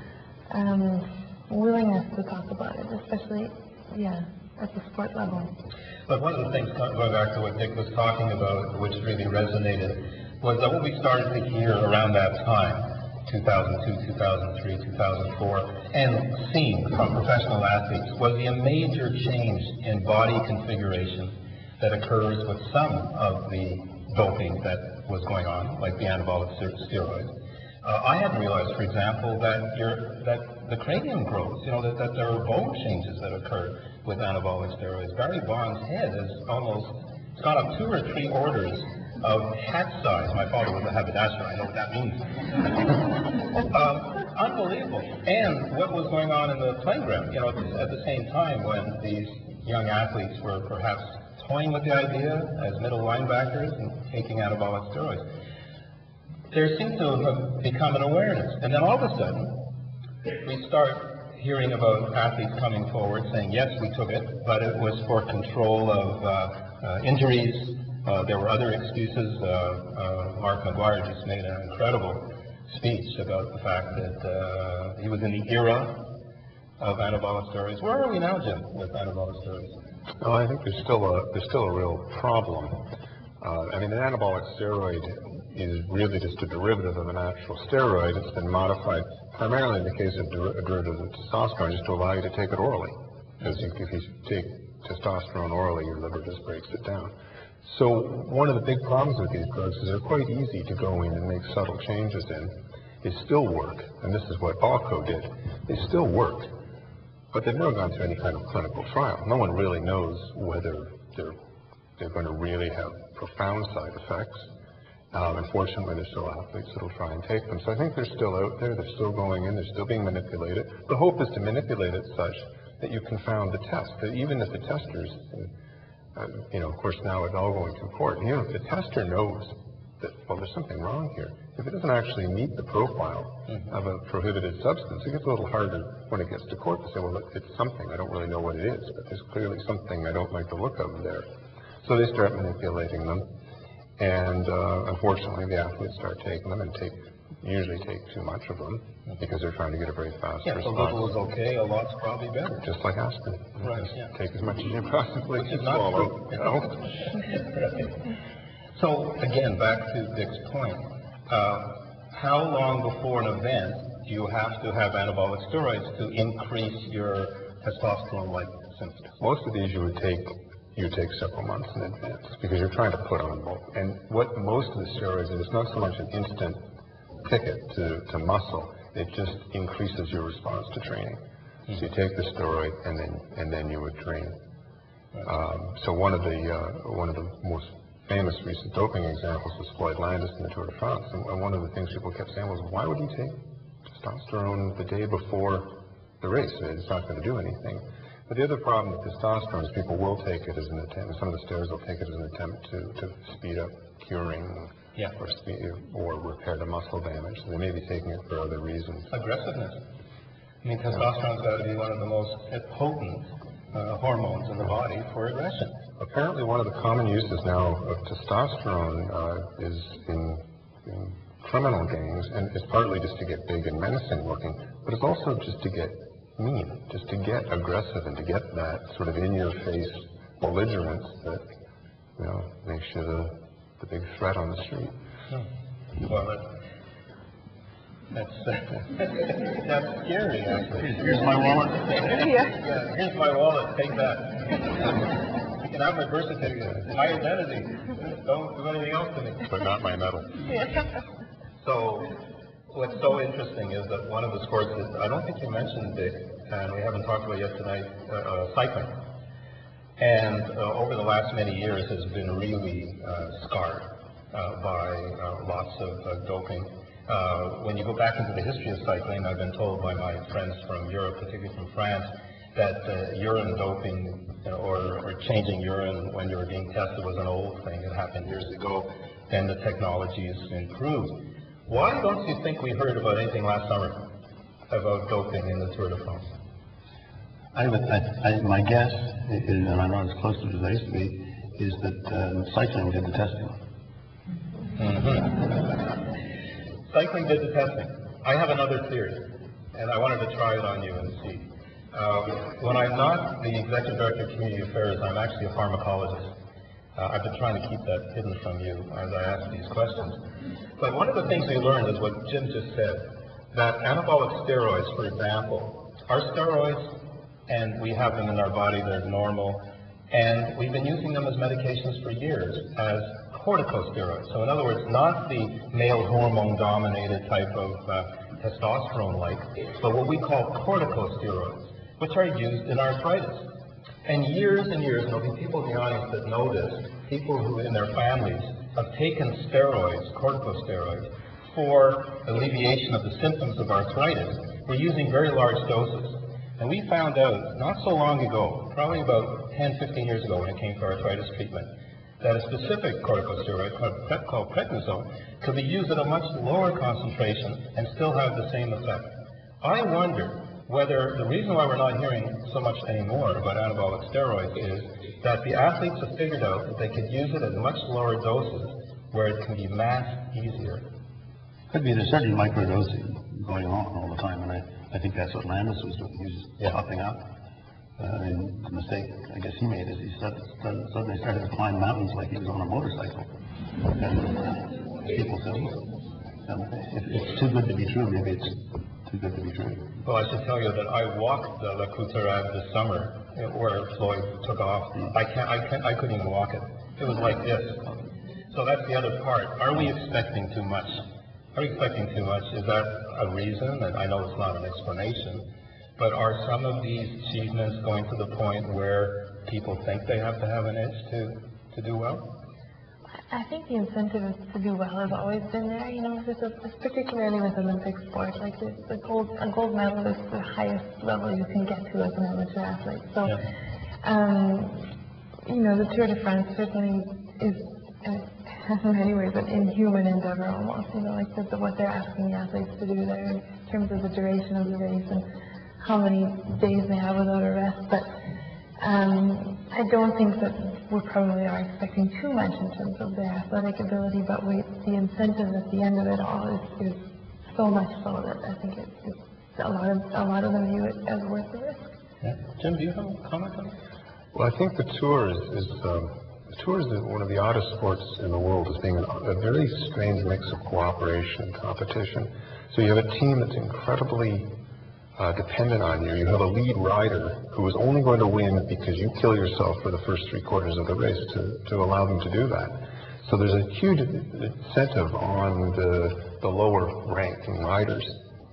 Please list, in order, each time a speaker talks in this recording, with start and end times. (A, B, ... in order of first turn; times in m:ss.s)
0:00.5-0:05.5 A
0:06.1-0:27.3 B
0:27.8-0:55.2 B
0:56.5-0:59.6 B
1:00.2-1:16.0 B
1:16.8-1:19.8 B
1:20.2-1:22.8 C
1:23.4-1:46.5 C
1:47.3-1:51.4 C
1:52.0-1:54.5 C
1:55.1-2:05.5 C
2:06.2-2:21.3 C
2:21.8-2:23.3 C
2:24.0-2:31.1 C
2:30.4-2:32.6 B
2:32.6-2:37.1 C
2:33.6-2:34.1 B
2:35.4-2:38.0 B
2:38.8-2:49.2 B
2:49.2-2:56.6 C
2:57.2-3:04.4 C
3:05.2-3:13.4 C
3:13.9-3:29.1 C
3:29.1-3:29.8 B
3:30.6-3:35.8 B
3:36.0-3:51.4 C
3:52.2-3:54.9 C
3:56.0-3:56.5 B
3:58.1-4:09.6 B
4:00.8-4:02.2 D
4:02.2-4:02.6 A
4:09.4-4:10.4 C
4:10.5-4:10.9 A
4:11.6-4:12.1 B
4:12.7-4:18.9 B
4:20.0-4:44.0 B
4:44.7-4:46.3 B
4:47.5-4:53.6 D
4:54.8-4:55.9 B
4:56.9-5:06.4 B
5:07.0-5:10.2 B
5:10.8-5:16.9 B
5:17.5-5:33.4 B
5:34.0-5:51.7 B
5:52.2-6:10.9 B
6:11.7-6:17.3 D
6:18.0-6:23.3 D
6:23.8-6:25.9 D
6:26.4-6:29.9 D
6:30.0-6:38.0 B
6:38.5-6:41.0 B
6:41.6-6:45.5 B
6:46.0-6:52.3 B
6:53.3-7:03.4 A
7:04.0-7:04.9 A
7:05.4-7:15.2 A
7:15.8-7:18.1 A
7:18.8-7:31.9 A
7:32.2-7:33.8 B
7:34.3-7:44.5 C
7:45.2-7:58.2 C